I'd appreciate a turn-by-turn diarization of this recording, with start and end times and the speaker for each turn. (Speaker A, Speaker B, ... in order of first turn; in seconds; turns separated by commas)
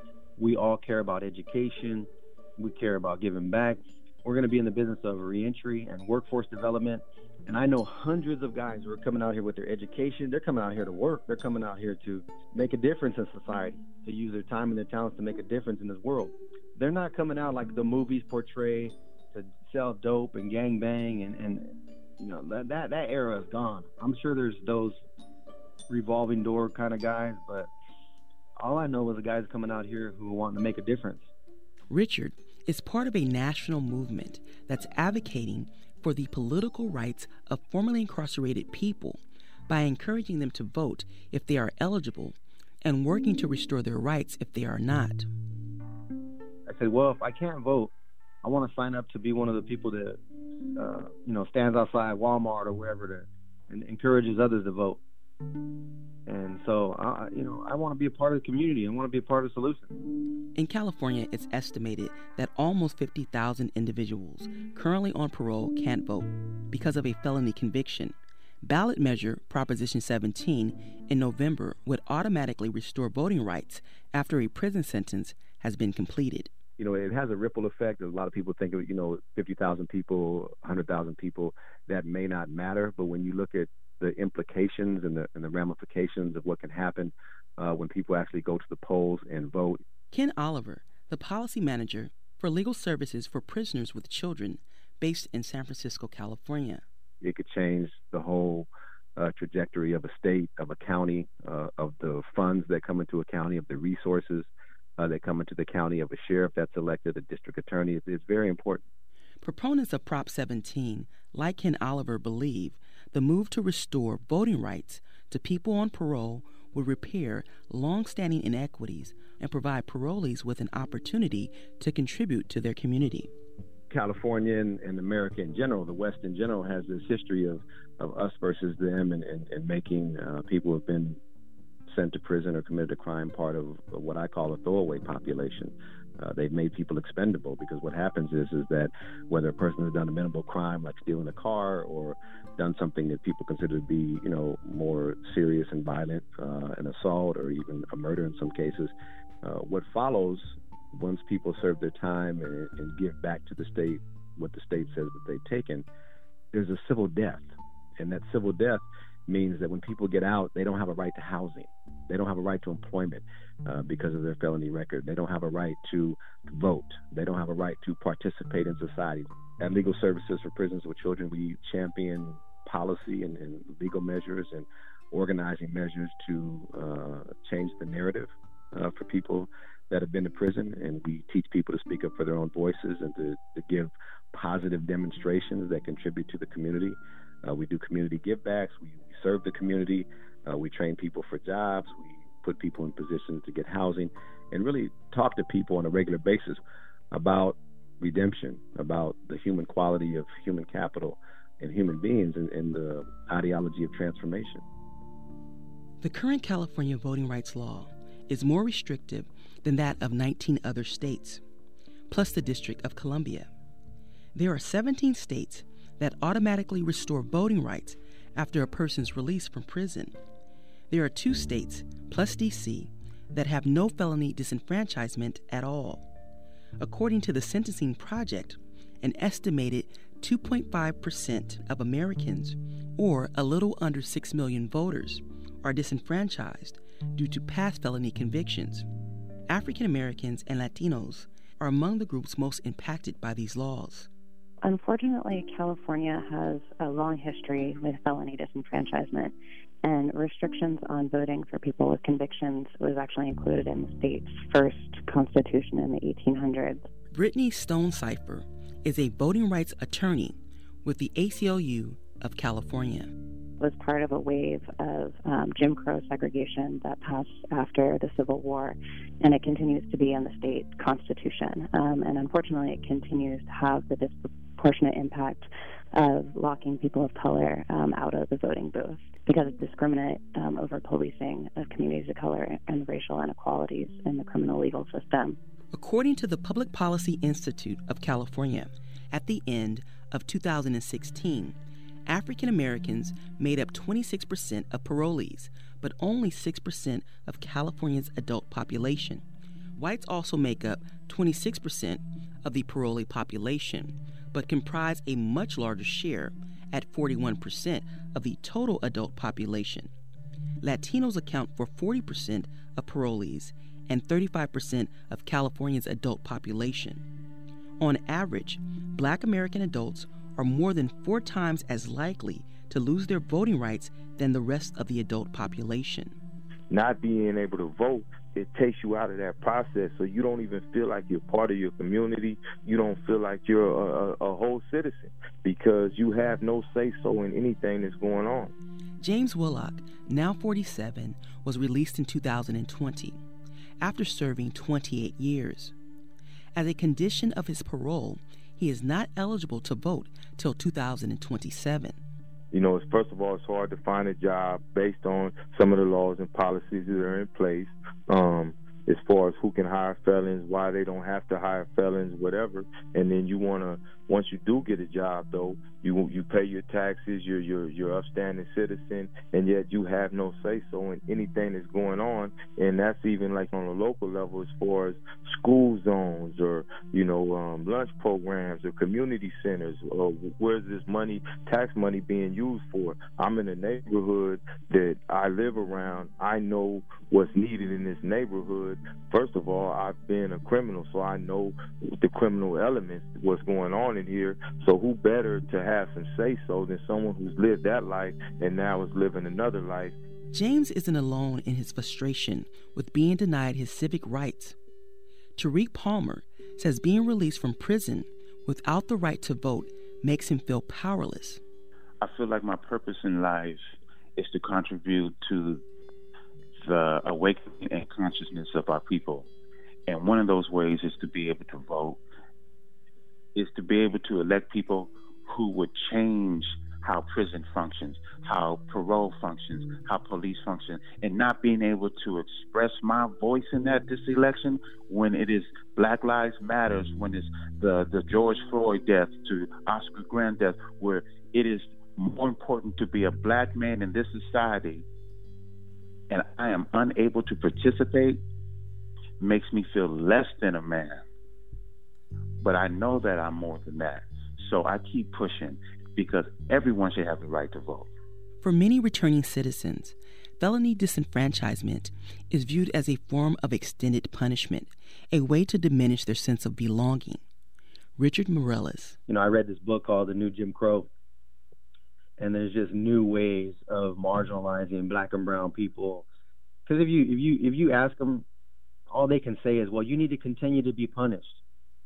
Speaker A: 0.4-25.0, Speaker A: 25.9-27.7, Speaker A: 28.6-31.3, Speaker B: 31.9-45.3, Speaker A: 46.7-47.9, Speaker A: 48.4-50.2, Speaker A: 50.8-55.0, Speaker A: 56.3-59.9, Speaker B: 60.5-76.5, Speaker C: 76.8-89.8, Speaker B: 90.1-96.8, Speaker C: 97.2-108.8, Speaker B: 109.4-123.3, Speaker C: 123.9-131.2, Speaker C: 131.9-155.9, Speaker C: 156.5-196.6, Speaker C: 197.1-204.6, Speaker B: 206.0-211.4, Speaker B: 212.1-213.5, Speaker B: 214.3-220.2, Speaker B: 220.9-226.1, Speaker B: 226.8-238.9, Speaker B: 239.5-244.1, Speaker D: 244.6-256.8, Speaker B: 257.1-263.1, Speaker D: 263.6-285.4, Speaker B: 285.7-291.6, Speaker B: 292.1-299.2, Speaker B: 299.8-309.9, Speaker B: 310.6-317.0, Speaker B: 317.8-326.1, Speaker E: 326.7-338.5, Speaker B: 339.0-343.2, Speaker B: 343.8-345.7, Speaker B: 346.6-352.0, Speaker E: 352.5-400.0, Speaker B: 400.3-404.6, Speaker B: 405.4-411.4, Speaker F: 412.0-415.6, Speaker F: 416.6-419.3, Speaker F: 419.9-422.0, Speaker F: 423.4-444.9, Speaker F: 446.1-448.2, Speaker F: 449.2-451.1, Speaker F: 452.4-457.9, Speaker B: 458.4-467.2, Speaker B: 468.0-469.0, Speaker A: 469.1-470.9, Speaker A: 472.2-476.1, Speaker A: 476.7-478.3, Speaker A: 478.9-481.4